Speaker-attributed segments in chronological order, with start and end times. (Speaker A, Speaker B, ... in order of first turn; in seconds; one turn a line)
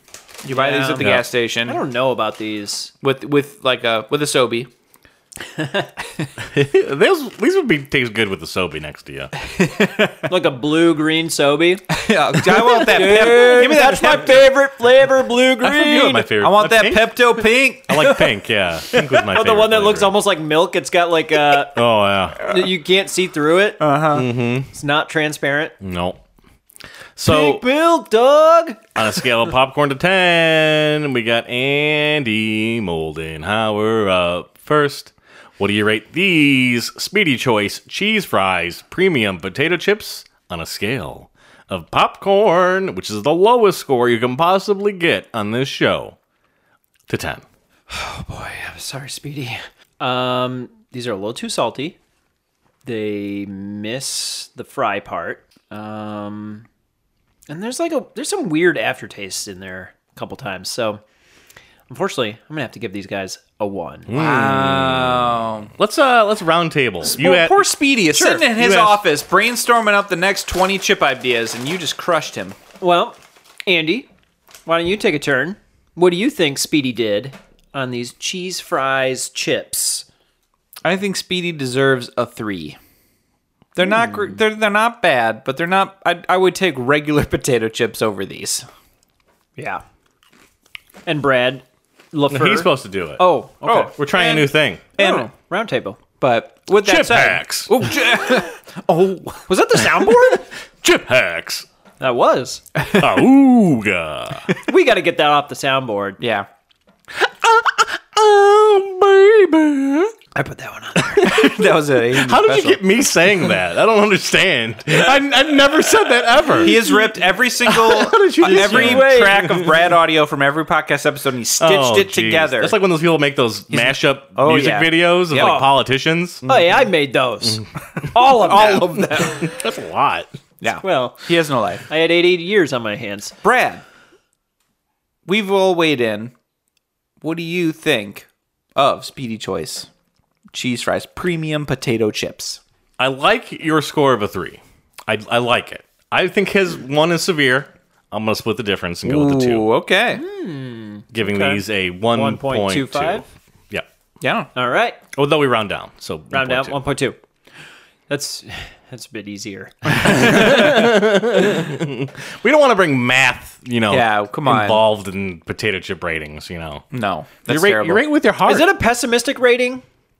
Speaker A: 0.4-1.8
Speaker B: 0.5-2.9
Speaker C: 1.0-1.3
Speaker A: 3.0-4.7
Speaker B: 5.5-5.9
Speaker C: 6.4-9.3
Speaker A: 9.4-10.2
Speaker B: 10.3-11.8
Speaker A: 11.9-14.5
Speaker B: 12.5-16.3
Speaker C: 15.6-17.2
Speaker A: 16.3-18.1
Speaker C: 17.9-20.1
Speaker B: 18.0-18.4
Speaker B: 18.9-21.8
Speaker C: 21.7-22.5
Speaker B: 22.4-23.8
Speaker A: 23.8-24.3
Speaker C: 24.1-24.7
Speaker B: 24.7-25.7
Speaker C: 25.8-26.2
Speaker C: 27.1-27.6
Speaker B: 27.2-28.9
Speaker C: 28.9-46.2
Speaker C: 47.1-47.4
Speaker B: 47.9-52.0
Speaker B: 52.8-56.6
Speaker B: 57.5-61.0
Speaker B: 61.9-64.1
Speaker C: 64.1-67.7
Speaker A: 64.1-65.7
Speaker A: 67.0-72.6
Speaker B: 68.1-68.5
Speaker C: 68.5-69.0
Speaker B: 72.8-74.1
Speaker B: 74.7-80.0
Speaker A: 80.8-82.8
Speaker A: 83.8-88.7
Speaker B: 89.6-89.8
Speaker B: 91.0-93.9
Speaker C: 92.3-94.8
Speaker A: 93.2-95.3
Speaker B: 95.0-96.0
Speaker A: 96.2-99.5
Speaker C: 96.8-97.7
Speaker B: 99.5-100.4
Speaker C: 100.1-101.6
Speaker B: 102.0-102.6
Speaker A: 102.8-103.1
Speaker C: 103.0-104.5
Speaker B: 104.6-106.2
Speaker A: 106.2-106.5
Speaker C: 107.2-110.1
Speaker B: 110.3-111.3
Speaker C: 111.0-116.8
Speaker A: 111.2-112.8
Speaker A: 116.6-122.7
Speaker B: 116.6-117.1
Speaker C: 117.6-119.7
Speaker B: 118.4-119.6
Speaker C: 121.6-126.4
Speaker A: 123.7-125.6
Speaker B: 125.3-125.8
Speaker B: 126.4-129.3
Speaker C: 127.5-128.1
Speaker A: 128.2-129.5
Speaker C: 129.1-130.3
Speaker A: 130.6-131.8
Speaker B: 130.7-131.3
Speaker B: 131.9-133.3
Speaker A: 133.4-133.8
Speaker A: 135.2-136.3
Speaker A: 137.2-139.9
Speaker A: 140.5-142.6
Speaker C: 143.0-149.7
Speaker A: 149.0-150.2
Speaker B: 150.1-153.2
Speaker C: 151.1-153.8
Speaker A: 154.2-154.5
Speaker B: 154.5-155.0
Speaker C: 155.1-156.8
Speaker B: 156.3-157.2
Speaker B: 158.1-160.8
Speaker C: 159.9-166.8
Speaker A: 163.9-164.8
Speaker A: 166.9-168.0
Speaker C: 167.4-168.7
Speaker B: 168.4-169.8